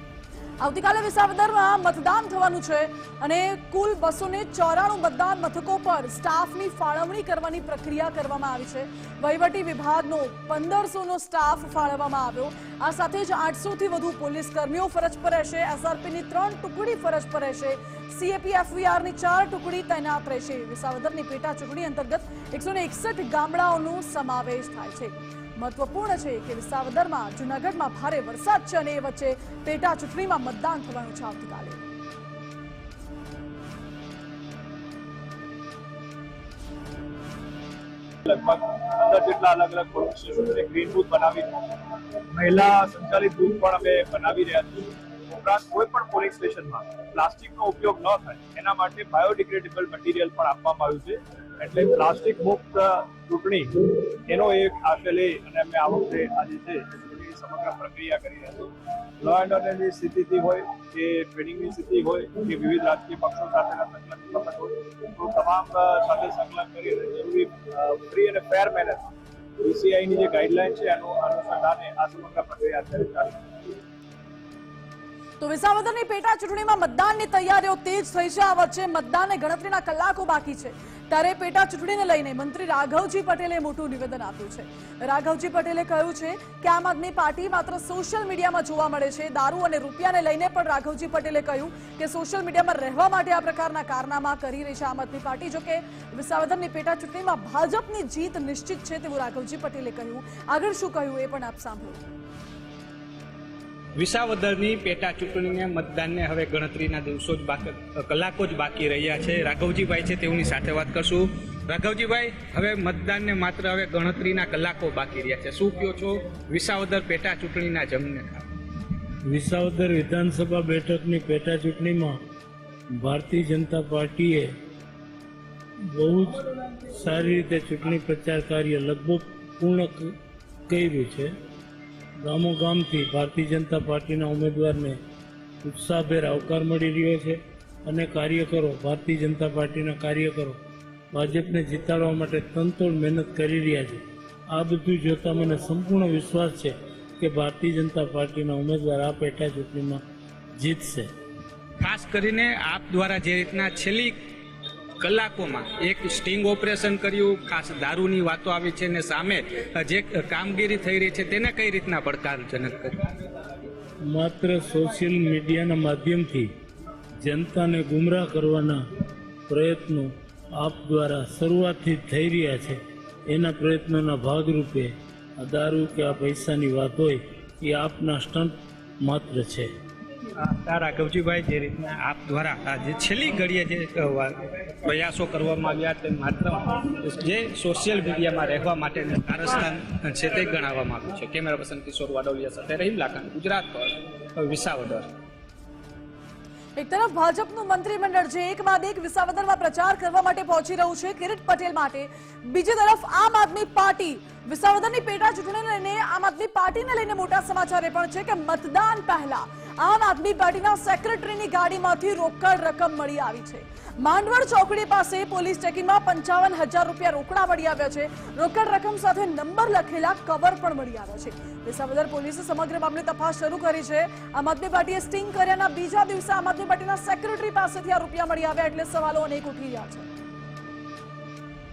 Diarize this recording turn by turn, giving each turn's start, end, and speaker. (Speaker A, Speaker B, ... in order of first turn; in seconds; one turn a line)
Speaker A: 0.6-31.8
Speaker B: 38.2-41.7
Speaker B: 42.3-58.7
Speaker B: 59.2-73.4
Speaker A: 75.4-102.0
Speaker C: 104.0-118.4
Speaker D: 119.3-122.2
Speaker D: 123.0-124.5
Speaker D: 125.9-130.1
Speaker D: 130.7-131.3
Speaker D: 132.2-135.0
Speaker D: 135.6-140.6
Speaker D: 141.1-150.0
Speaker D: 150.6-151.1
Speaker C: 151.8-154.1
Speaker C: 155.0-162.9
Speaker D: 164.1-166.5
Speaker D: 167.2-168.8
Speaker D: 169.5-179.7
Speaker C: 180.4-195.0
Speaker A: 196.8-230.1